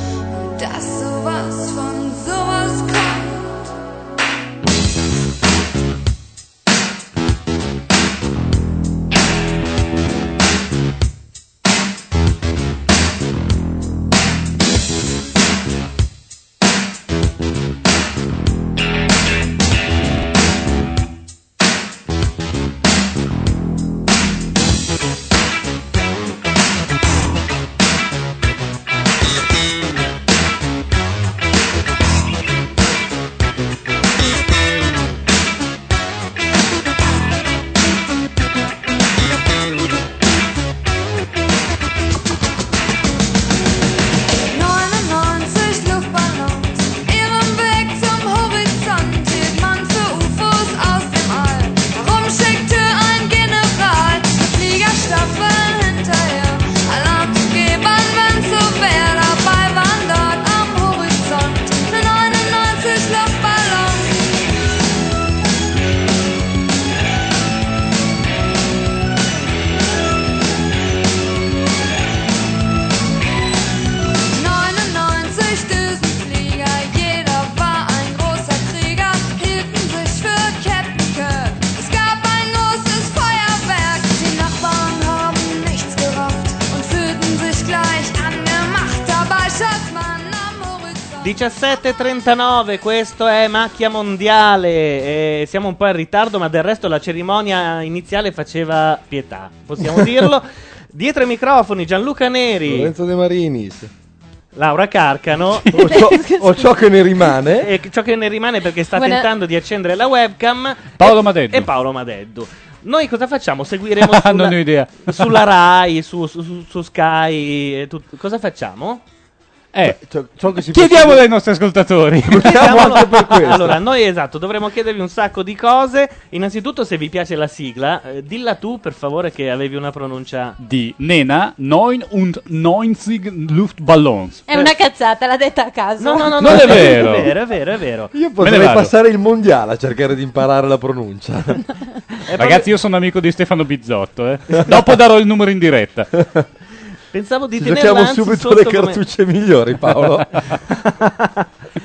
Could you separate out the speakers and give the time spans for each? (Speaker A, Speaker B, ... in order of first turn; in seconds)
Speaker A: 0.3-3.7, 44.5-64.2, 74.3-91.4
Speaker B: 91.2-102.9, 104.5-106.0, 107.6-119.0, 122.4-130.6, 136.0-138.1, 142.3-142.7, 147.1-149.0, 151.0-151.4
Speaker C: 102.6-103.9, 105.7-107.8, 119.8-121.3, 122.3-123.8, 138.1-141.7, 146.2-146.4, 147.6-150.5
Speaker D: 105.7-106.7, 108.9-109.3, 134.5-136.9
Speaker E: 111.0-111.7, 114.0-115.4, 119.7-120.0, 120.6-123.6, 130.6-134.4, 136.4-137.3, 138.4-138.9, 142.3-146.2